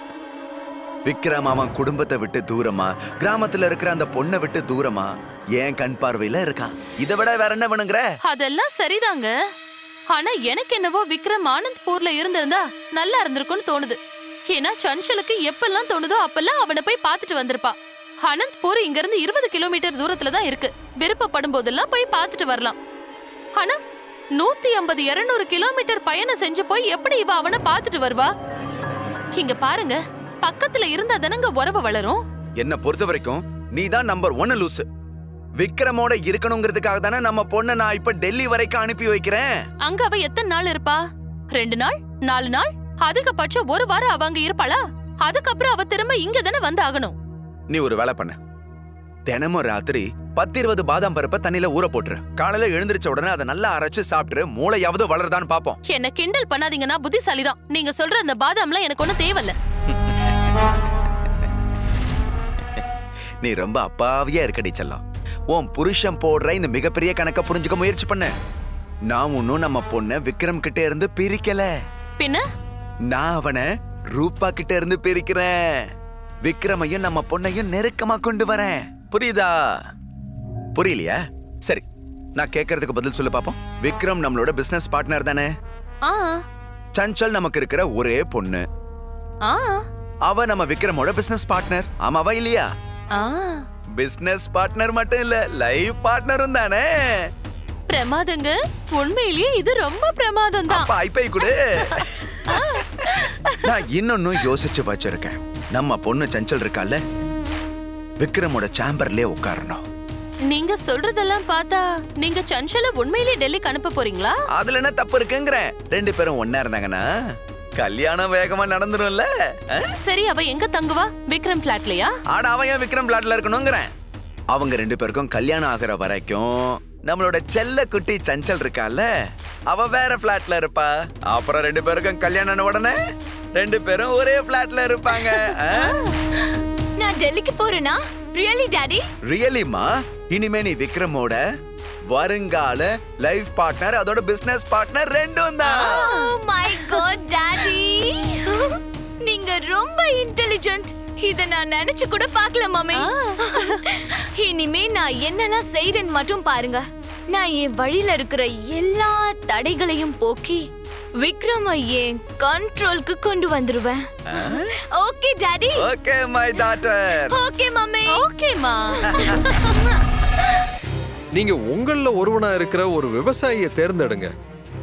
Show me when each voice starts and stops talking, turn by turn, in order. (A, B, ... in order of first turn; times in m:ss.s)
0:01.1-0:08.0 A
0:08.2-0:09.3 B
0:10.1-0:14.0 B
0:14.5-0:22.8 B
0:24.4-0:28.3 B
0:29.4-0:32.2 B
0:32.6-0:34.9 A
0:35.6-0:39.5 A
0:39.8-0:41.0 B
0:41.5-0:47.2 B
0:47.7-0:48.4 A
0:49.3-0:55.8 A
0:55.9-0:59.6 B
1:03.4-1:08.3 A
1:09.1-1:11.7 A
1:13.1-1:15.9 A
1:16.4-1:19.8 A
1:20.8-1:21.9 A
1:22.4-1:25.5 A
1:26.1-1:26.4 B
1:27.0-1:28.6 A
1:29.4-1:29.8 B
1:30.3-1:32.7 A
1:33.1-1:33.6 B
1:34.0-1:37.3 A
1:37.9-1:40.9 B
1:40.7-1:42.6 A
1:41.9-1:43.6 B
1:43.6-1:47.0 A
1:48.2-1:49.8 A
1:50.5-1:54.4 B
1:54.6-1:57.0 A
1:57.8-1:59.9 A
2:00.0-2:02.1 B
2:02.3-2:03.9 A
2:04.5-2:09.1 A
2:09.7-2:13.0 A
2:13.6-2:16.0 A
2:15.1-2:16.0 C
2:17.0-2:19.0 C
2:19.3-2:21.4 A
2:22.1-2:26.1 A
2:25.6-2:40.7 C
2:25.8-2:26.3 B
2:32.9-2:33.8 B
2:41.2-2:45.8 C
2:44.3-2:44.7 A
2:45.8-2:47.4 A
2:47.3-2:48.3 C
2:48.1-2:49.6 B
2:49.6-2:50.0 C
2:51.4-2:54.3 D